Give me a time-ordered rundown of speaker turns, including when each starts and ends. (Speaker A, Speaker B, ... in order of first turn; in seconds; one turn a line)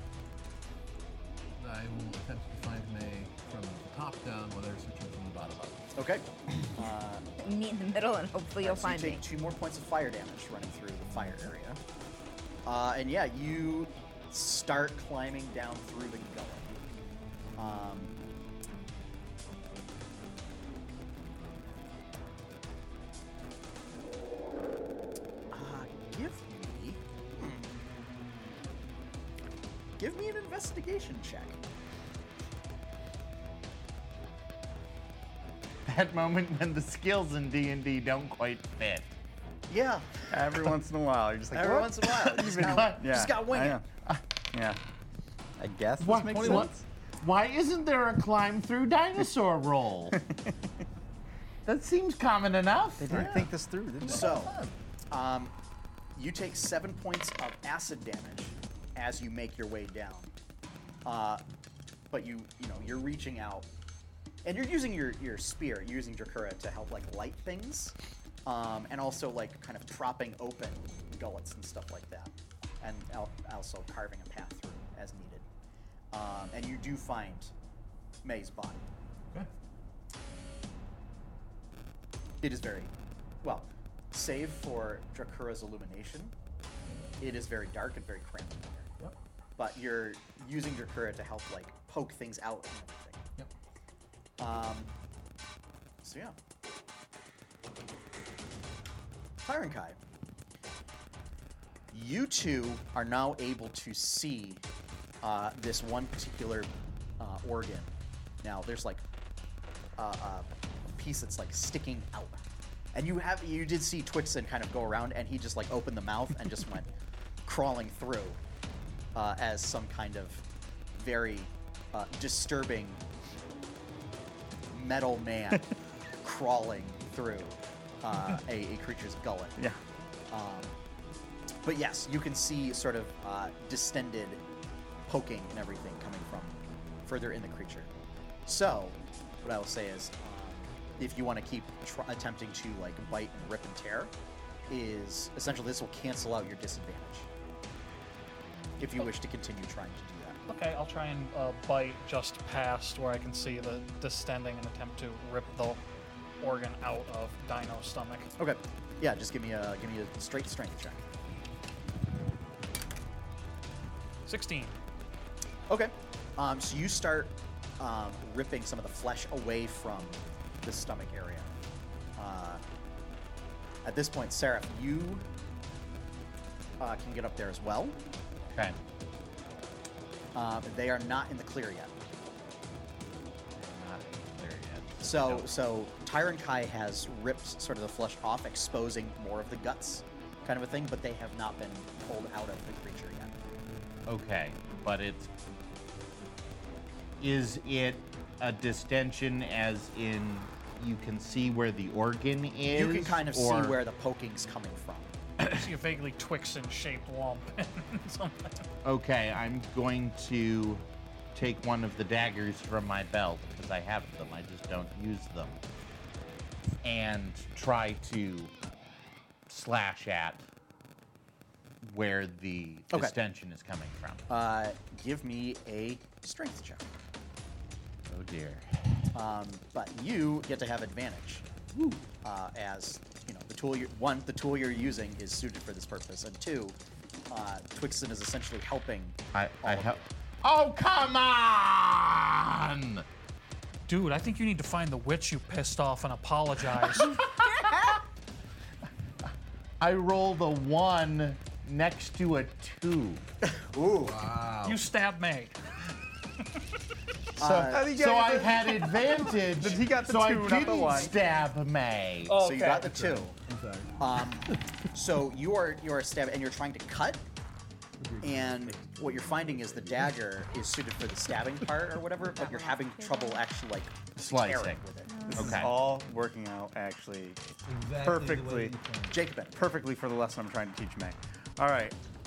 Speaker A: 1.6-5.8
Speaker B: 6.0-7.3
Speaker C: 7.4-9.2
Speaker B: 8.6-11.8
Speaker B: 12.7-16.7
Speaker B: 17.6-18.2
Speaker B: 25.5-27.7
Speaker B: 30.0-31.6
Speaker D: 35.9-39.1
Speaker B: 39.7-40.8
Speaker E: 40.3-44.8
Speaker B: 41.5-43.8
Speaker D: 42.4-43.0
Speaker E: 45.6-46.7
Speaker D: 46.0-50.2
Speaker E: 50.1-50.5
Speaker D: 51.7-53.3
Speaker E: 53.0-54.4
Speaker A: 53.1-54.7
Speaker B: 54.1-54.6
Speaker B: 55.1-55.5
Speaker B: 56.1-60.3
Speaker B: 61.0-61.4
Speaker B: 62.1-63.7
Speaker B: 64.4-68.0
Speaker B: 68.5-75.5
Speaker B: 76.1-77.5
Speaker B: 78.2-78.8
Speaker B: 82.4-86.3
Speaker B: 87.2-88.9
Speaker B: 89.6-93.2
Speaker B: 94.4-94.9
Speaker B: 96.0-96.3
Speaker B: 99.4-100.0
Speaker B: 101.9-104.6
Speaker B: 105.2-109.0
Speaker B: 110.0-112.4
Speaker B: 112.9-116.9
Speaker B: 117.5-118.4
Speaker B: 119.1-120.4
Speaker B: 121.0-123.0
Speaker B: 124.7-125.7
Speaker B: 126.2-129.7
Speaker B: 130.3-130.8
Speaker B: 131.6-134.4
Speaker B: 135.1-137.9
Speaker B: 138.4-144.1
Speaker B: 144.7-147.3
Speaker B: 148.8-150.4
Speaker F: 150.5-155.8
Speaker F: 156.4-158.3
Speaker B: 158.4-161.0
Speaker F: 164.3-164.8
Speaker B: 165.7-171.5
Speaker B: 172.2-172.6
Speaker B: 173.8-175.2
Speaker B: 176.8-178.0
Speaker D: 178.5-178.8
Speaker B: 180.3-181.9
Speaker D: 183.6-185.5
Speaker B: 185.0-193.3
Speaker D: 194.1-195.3
Speaker D: 197.2-203.8
Speaker B: 202.7-205.1
Speaker F: 205.4-208.6
Speaker D: 208.8-215.6
Speaker D: 216.8-218.5
Speaker D: 219.5-220.4
Speaker D: 221.8-224.3
Speaker B: 224.3-226.9
Speaker D: 228.1-229.1
Speaker B: 229.1-231.5
Speaker B: 232.2-236.8
Speaker B: 237.3-240.1
Speaker D: 239.3-243.1
Speaker F: 243.9-247.7
Speaker D: 249.8-253.2
Speaker B: 253.5-254.2
Speaker A: 254.0-254.8
Speaker F: 254.6-255.6
Speaker B: 257.4-257.9
Speaker D: 257.4-262.4
Speaker E: 257.6-261.1
Speaker E: 262.3-262.9
Speaker B: 262.3-263.3
Speaker A: 262.7-264.6
Speaker B: 264.0-267.2
Speaker A: 268.0-270.2
Speaker B: 268.2-275.2
Speaker C: 272.2-273.4
Speaker D: 274.2-274.8
Speaker C: 275.1-275.6
Speaker D: 275.3-275.7
Speaker E: 275.3-277.4
Speaker A: 277.7-279.2
Speaker E: 278.0-278.8
Speaker B: 279.1-279.6
Speaker E: 279.5-282.0